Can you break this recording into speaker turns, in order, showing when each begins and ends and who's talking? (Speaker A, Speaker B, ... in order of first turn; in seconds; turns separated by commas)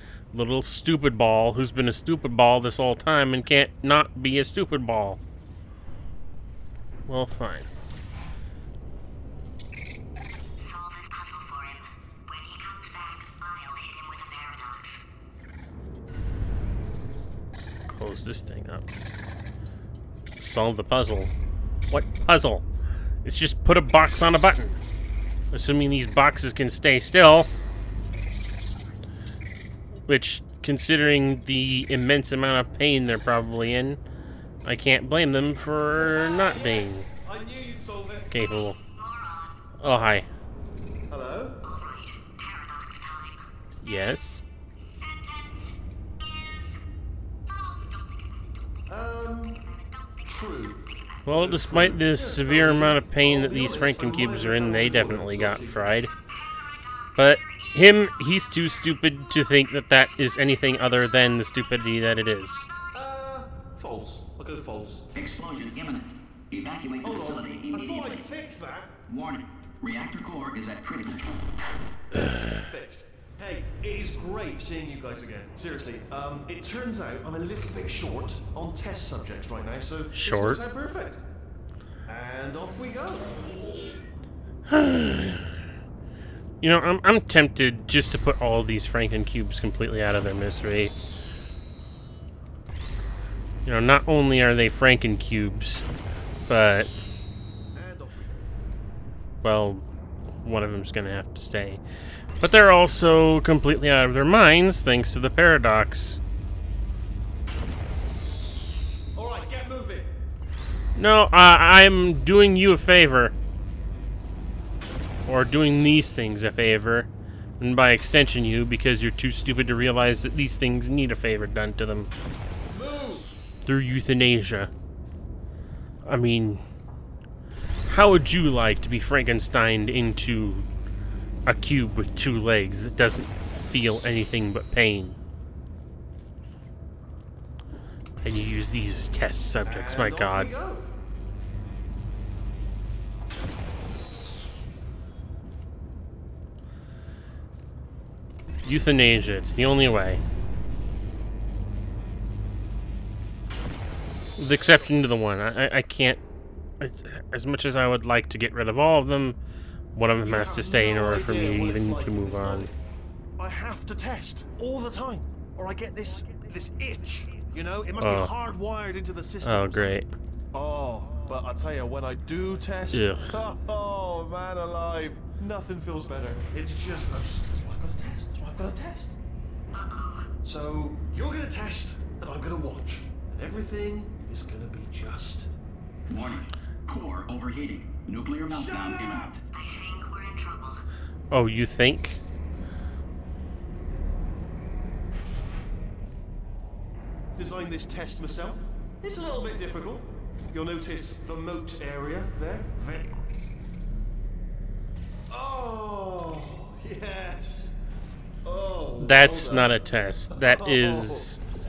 Speaker A: 0.3-5.2, Speaker A: 7.1-7.7, Speaker B: 10.6-15.0, Speaker A: 17.9-18.9, Speaker A: 20.4-21.3, Speaker A: 21.9-22.7, Speaker A: 23.2-24.8, Speaker A: 25.5-27.5, Speaker A: 30.1-34.0, Speaker A: 34.6-37.1, Speaker C: 36.0-38.3, Speaker A: 38.3-38.8, Speaker B: 38.9-39.9, Speaker A: 39.8-40.3, Speaker C: 41.1-41.6, Speaker B: 41.6-43.4, Speaker A: 43.8-44.4, Speaker B: 44.9-46.8, Speaker B: 47.5-48.7, Speaker C: 48.9-49.7, Speaker B: 49.7-51.2, Speaker C: 50.2-56.1, Speaker A: 51.2-56.1, Speaker B: 56.1-58.7, Speaker A: 57.2-62.7, Speaker C: 62.9-65.1, Speaker D: 65.2-68.2, Speaker C: 67.0-69.0, Speaker D: 69.1-71.4, Speaker C: 72.5-81.3, Speaker A: 80.1-80.6, Speaker C: 82.0-83.3, Speaker A: 84.7-85.6, Speaker A: 86.6-90.9, Speaker A: 93.7-95.9, Speaker A: 96.5-96.9, Speaker C: 97.7-98.5, Speaker A: 99.4-99.9, Speaker A: 100.4-101.8, Speaker A: 102.4-106.2, Speaker C: 109.1-110.1, Speaker A: 111.0-113.3, Speaker A: 115.3-117.1, Speaker A: 117.6-122.1, Speaker C: 122.7-123.3, Speaker A: 123.7-124.7, Speaker A: 126.0-126.6, Speaker A: 127.9-130.7, Speaker A: 131.5-135.2, Speaker A: 138.2-140.5, Speaker C: 139.6-140.9, Speaker A: 148.6-150.2, Speaker A: 154.4-156.2, Speaker A: 156.8-159.4, Speaker A: 159.9-162.7, Speaker C: 160.2-162.7, Speaker C: 163.4-170.0, Speaker A: 168.0-168.3, Speaker A: 169.4-170.1, Speaker C: 170.5-179.2, Speaker A: 172.9-173.3, Speaker B: 179.7-180.3, Speaker C: 180.4-185.5, Speaker D: 186.1-189.4, Speaker C: 188.5-189.3, Speaker B: 189.5-190.8, Speaker A: 191.3-192.2, Speaker C: 197.4-203.2, Speaker C: 205.3-207.8, Speaker C: 208.4-211.3, Speaker A: 209.0-211.4